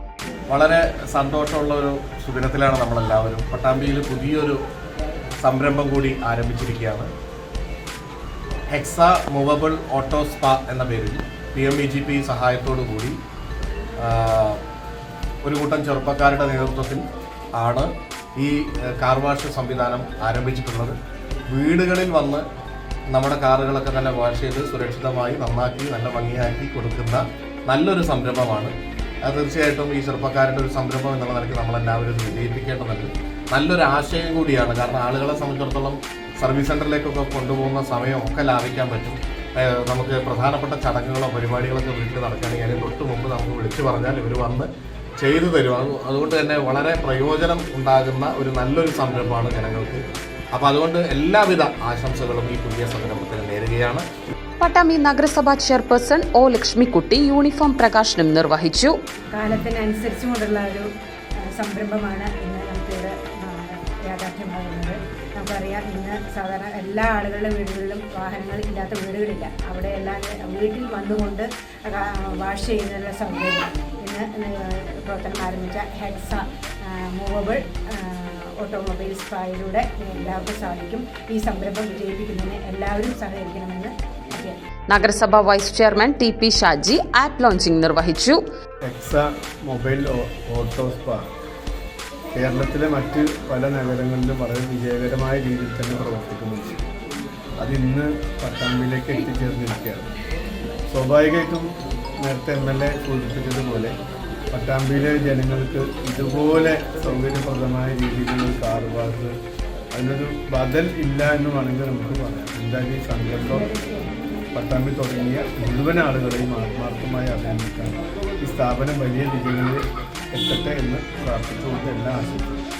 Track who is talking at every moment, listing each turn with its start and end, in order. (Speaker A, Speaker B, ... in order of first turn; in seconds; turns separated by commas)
Speaker A: 0.5-4.6, Speaker A: 5.4-7.1, Speaker A: 8.7-13.2, Speaker A: 14.0-14.6, Speaker A: 15.4-17.1, Speaker A: 17.6-21.0, Speaker A: 21.5-22.4, Speaker A: 23.1-28.7, Speaker A: 29.3-44.7, Speaker A: 45.2-50.0, Speaker A: 50.5-54.0, Speaker B: 54.6-58.9, Speaker C: 59.3-60.9, Speaker C: 61.5-84.6, Speaker B: 84.9-88.4, Speaker D: 88.9-91.2, Speaker D: 92.3-96.8, Speaker D: 97.6-100.1, Speaker D: 100.9-101.7, Speaker D: 102.2-103.9, Speaker D: 104.5-109.3, Speaker D: 109.9-113.7, Speaker C: 113.5-114.1, Speaker D: 114.5-119.8, Speaker D: 120.3-122.4